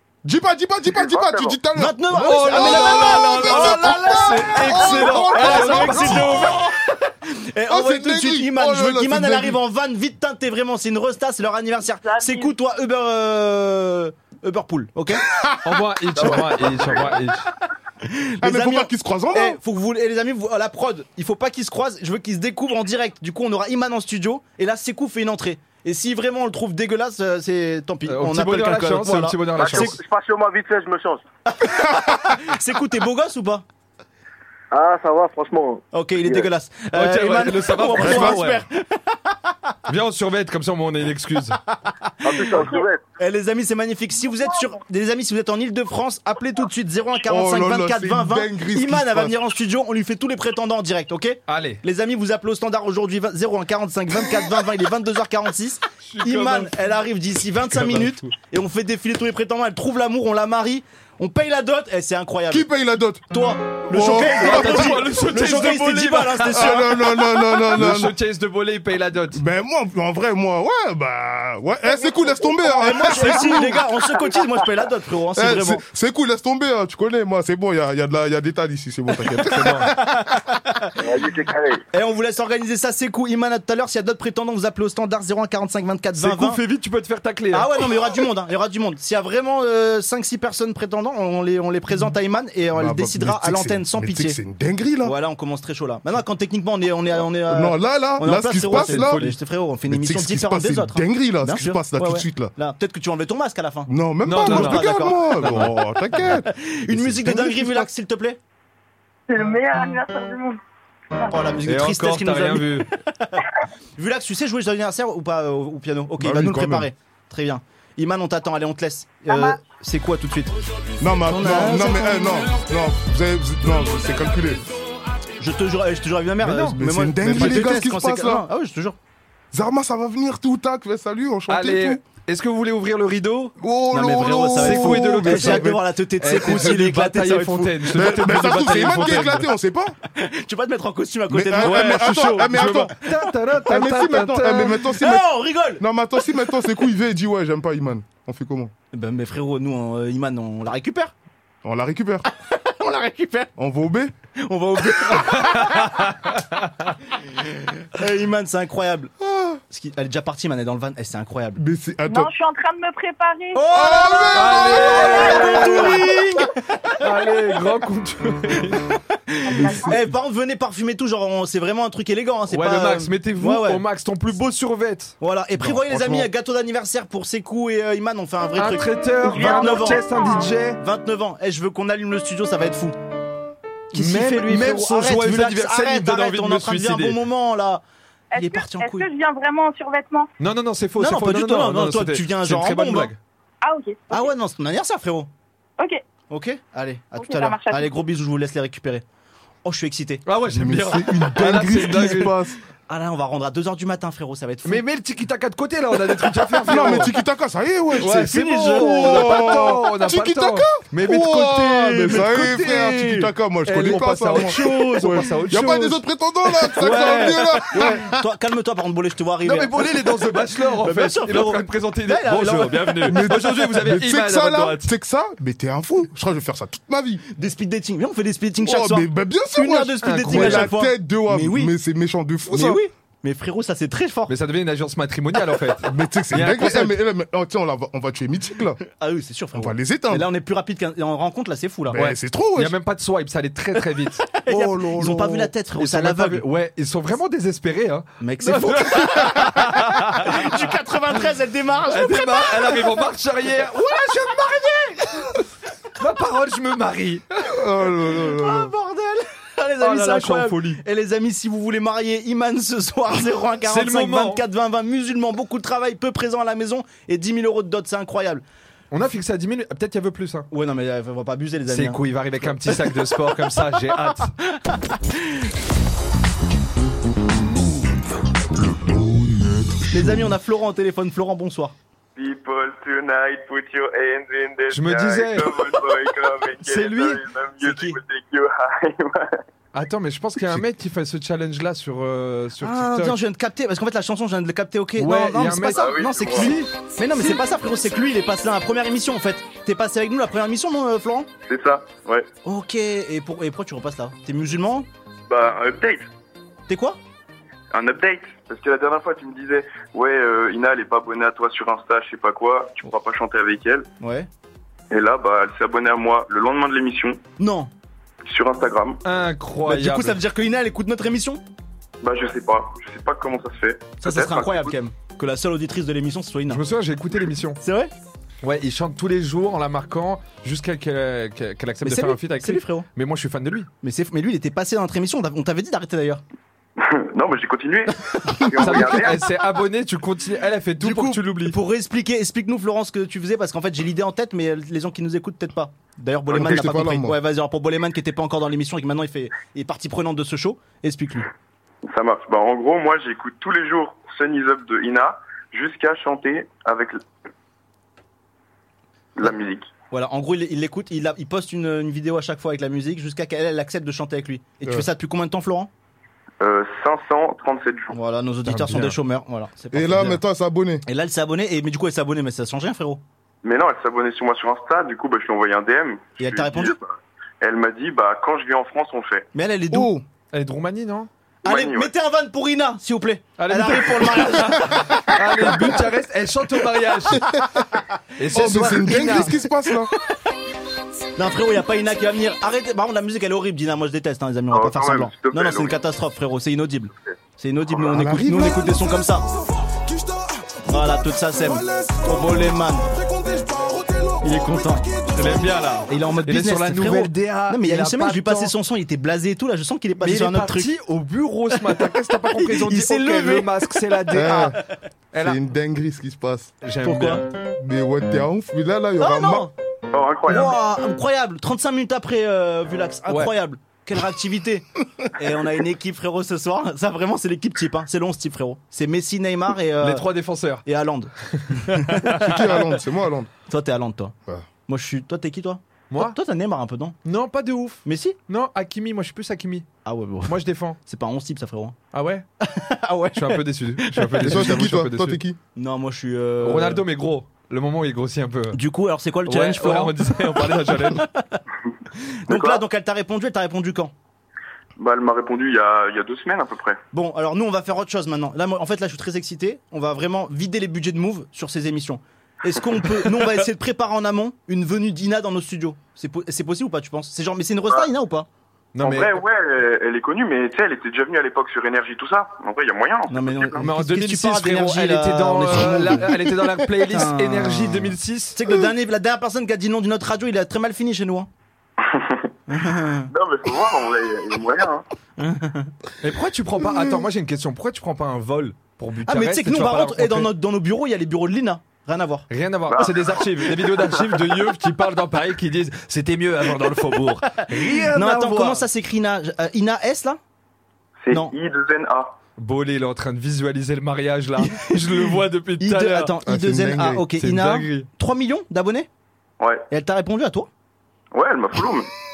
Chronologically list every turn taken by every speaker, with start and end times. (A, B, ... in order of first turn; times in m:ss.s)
0:00.2-0:06.6 A
0:01.1-0:01.6 B
0:01.7-0:15.2 C
0:02.1-0:06.5 D
0:07.7-0:09.6 A
0:12.0-0:12.5 E
0:15.3-0:16.6 A
0:15.6-0:17.4 D
0:18.0-0:30.0 C
0:18.4-0:19.6 A
0:28.1-0:30.0 D
0:29.6-0:31.2 B
0:31.6-0:33.6 C
0:34.7-0:36.5 B
0:35.9-0:39.1 C
0:36.9-0:38.6 D
0:38.0-0:38.4 A
0:39.9-0:41.6 D
0:42.2-0:43.0 B
0:42.2-1:02.6 C
0:47.2-0:49.3 A
0:51.5-0:51.8 D
0:56.0-0:56.7 D
0:57.7-0:58.3 D
1:02.5-1:03.3 A
1:03.3-1:07.0 C
1:03.9-1:05.1 A
1:04.1-1:06.8 D
1:06.5-1:08.1 A
1:07.7-1:09.4 D
1:09.3-1:13.8 A
1:11.9-1:13.2 E
1:12.8-1:15.8 C
1:15.4-1:19.9 A
1:19.5-1:19.9 D
1:19.9-1:20.9 C
1:21.0-1:21.8 B
1:21.9-1:26.6 C
1:26.2-1:27.8 D
1:27.5-1:34.4 C
1:32.7-1:35.1 A
1:35.0-1:45.5 C
1:37.5-1:39.3 A
1:38.7-1:39.4 D
1:39.9-1:42.5 A
1:43.9-1:47.9 A
1:44.2-1:45.7 D
1:46.2-1:48.4 C
1:49.3-1:50.6 E
1:51.3-1:53.4 C
1:51.6-1:52.9 D
1:54.0-2:00.6 C
1:56.2-1:56.9 A
1:59.3-1:59.6 E
2:01.0-2:04.6 A
2:01.2-2:02.5 C
2:05.4-2:09.0 C
2:06.4-2:07.8 D
2:06.7-2:08.4 A
2:09.5-2:12.0 A
2:11.5-2:13.5 D
2:13.6-2:15.8 A
2:13.9-2:18.0 C
2:14.6-2:19.5 D
2:16.3-2:16.6 A
2:17.9-2:19.9 A
2:20.1-2:22.6 C
2:21.3-2:23.0 A
2:21.6-2:24.8 D
2:23.6-2:25.2 A
2:24.9-2:25.8 C
2:25.8-2:28.7 A
2:28.9-2:31.1 C
2:31.6-2:32.2 A
2:32.4-2:33.5 C
2:33.6-2:34.1 A
2:34.4-2:36.1 C
2:35.4-2:35.9 D
2:37.8-2:39.1 C
2:39.2-2:39.6 A
2:39.7-2:41.6 C
2:41.6-2:42.3 A
2:42.0-2:43.6 E
2:43.5-2:47.0 C
2:43.7-2:46.1 A
2:44.3-2:46.0 D
2:44.9-2:45.5 E
2:47.0-2:48.8 D
2:49.4-2:53.8 C
2:49.5-2:49.9 E
2:49.5-2:50.1 A
2:52.5-2:55.2 D
2:55.2-3:00.0 C
2:55.6-2:56.3 A
2:58.6-3:00.8 D
2:59.3-3:00.5 E
3:00.8-3:03.0 C
3:03.9-3:07.8 C
3:03.9-3:07.2 D
3:08.3-3:10.3 E
3:08.3-3:09.1 C
3:10.4-3:13.2 D
3:11.0-3:13.1 C
3:13.6-3:14.3 E
3:14.1-3:15.3 C
3:16.3-3:19.0 C
3:17.2-3:17.9 E
3:19.6-3:20.2 C
3:20.2-3:22.4 D
3:20.5-3:22.6 A
3:22.9-3:24.8 C
3:24.6-3:27.1 D
3:26.6-3:38.2 A
3:26.7-3:27.0 C
3:28.0-3:36.0 D
3:28.0-3:29.6 C
3:32.1-3:33.0 C
3:36.8-3:38.0 D
3:36.8-3:43.2 C
3:39.4-3:44.9 D
3:43.0-3:47.2 A
3:47.3-3:51.7 C
3:48.6-3:52.8 A
3:50.0-3:50.7 D
3:52.5-3:54.3 C
3:54.3-3:57.0 D
3:55.8-3:58.8 A
3:58.9-4:02.0 C
3:59.5-4:00.2 A
4:01.9-4:02.7 A
4:01.9-4:04.2 D
4:04.3-4:06.4 C
4:04.5-4:05.5 A
4:05.8-4:10.6 D
4:08.2-4:12.8 C
4:11.9-4:15.4 D
4:16.0-4:17.4 D
4:17.4-4:18.7 A
4:18.1-4:28.4 C
4:19.8-4:20.8 D
4:23.6-4:24.4 D
4:28.9-4:30.5 D
4:30.5-4:32.5 C
4:31.7-4:34.3 D
4:34.7-4:35.0 C
4:39.9-4:41.7 C
4:42.2-4:49.4 F
4:44.7-4:45.6 D
4:46.6-4:47.2 D
4:47.6-4:48.0 C
4:49.7-4:53.2 D
4:52.6-5:01.3 C
4:55.0-4:56.7 D
4:55.7-4:56.5 F
5:01.5-5:02.3 F
5:02.4-5:04.9 C
5:05.3-5:06.1 F
5:06.7-5:07.0 C
5:07.7-5:13.9 F
5:14.0-5:14.3 C
5:14.9-5:17.2 F
5:17.4-5:17.7 C
5:18.2-5:19.0 F
5:19.0-5:20.2 D
5:19.6-5:21.4 C
5:22.0-5:24.7 F
5:24.0-5:26.6 C
5:26.5-5:27.6 D
5:27.6-5:27.9 C
5:28.4-5:33.7 D
5:31.8-5:32.9 C
5:33.8-5:36.2 C
5:36.8-5:39.3 F
5:38.3-5:38.7 C
5:38.6-5:41.6 D
5:40.8-5:51.3 C
5:46.3-5:47.2 A
5:51.9-5:57.0 F
5:59.2-5:59.7 F
5:59.9-6:05.7 C
6:06.4-6:08.0 F
6:07.9-6:10.2 C
6:08.4-6:09.0 D
6:09.7-6:10.8 A
6:10.8-6:13.0 C
6:13.4-6:19.3 F
6:16.2-6:16.8 C
6:19.3-6:19.9 C
6:19.7-6:20.0 A
6:20.3-6:21.1 D
6:21.4-6:21.9 F
6:21.4-6:25.7 C
6:23.4-6:27.3 D
6:28.2-6:29.4 D
6:28.3-6:29.9 A
6:28.3-6:29.3 C
6:31.2-6:39.2 C
6:34.5-6:35.8 F
6:37.8-6:45.9 A
6:40.7-6:42.9 C
6:44.2-6:44.9 C
6:45.1-6:48.5 D
6:45.9-6:50.7 C
6:50.0-6:54.6 D
6:51.5-6:53.5 C
6:54.1-6:54.6 A
6:55.1-6:55.4 D
6:55.2-6:56.5 A
6:56.6-6:57.2 D
6:56.8-6:57.2 C
6:57.6-6:59.5 A
6:59.0-6:59.5 C
6:59.9-7:00.6 F
7:00.3-7:10.0 C
7:03.1-7:03.3 D
7:09.8-7:10.6 D
7:10.6-7:11.1 C
7:11.3-7:12.3 D
7:11.7-7:12.5 C
7:12.1-7:13.3 A
7:13.5-7:14.1 C
7:14.7-7:17.0 C
7:15.9-7:16.2 D
7:17.0-7:19.7 D
7:17.8-7:18.2 C
7:19.8-7:21.8 C
7:20.2-7:20.8 D
7:21.9-7:22.2 D
7:22.4-7:24.6 C
7:23.1-7:25.2 D
7:24.2-7:25.4 A
7:25.6-7:26.8 C
7:26.4-7:28.6 D
7:28.5-7:31.4 C
7:29.2-7:31.0 D
7:32.0-7:33.9 C
7:32.3-7:32.6 F
7:34.8-7:36.8 F
7:36.9-7:48.3 C
7:48.7-7:49.2 D
7:48.8-7:53.6 F
7:53.1-7:56.3 C
7:53.6-7:58.4 D
7:56.8-8:01.3 C
8:01.8-8:02.3 F
8:02.5-8:03.1 C
8:03.1-8:04.8 F
8:05.2-8:05.7 C
8:06.0-8:10.3 D
8:09.0-8:12.3 C
8:12.3-8:18.6 D
8:12.7-8:14.2 F
8:17.4-8:20.2 C
8:21.0-8:22.1 F
8:22.4-8:26.1 D
8:24.4-8:28.9 C
8:26.2-8:27.1 A
8:27.2-8:27.9 D
8:29.4-8:29.6 F
8:29.7-8:30.5 C
8:31.1-8:31.9 F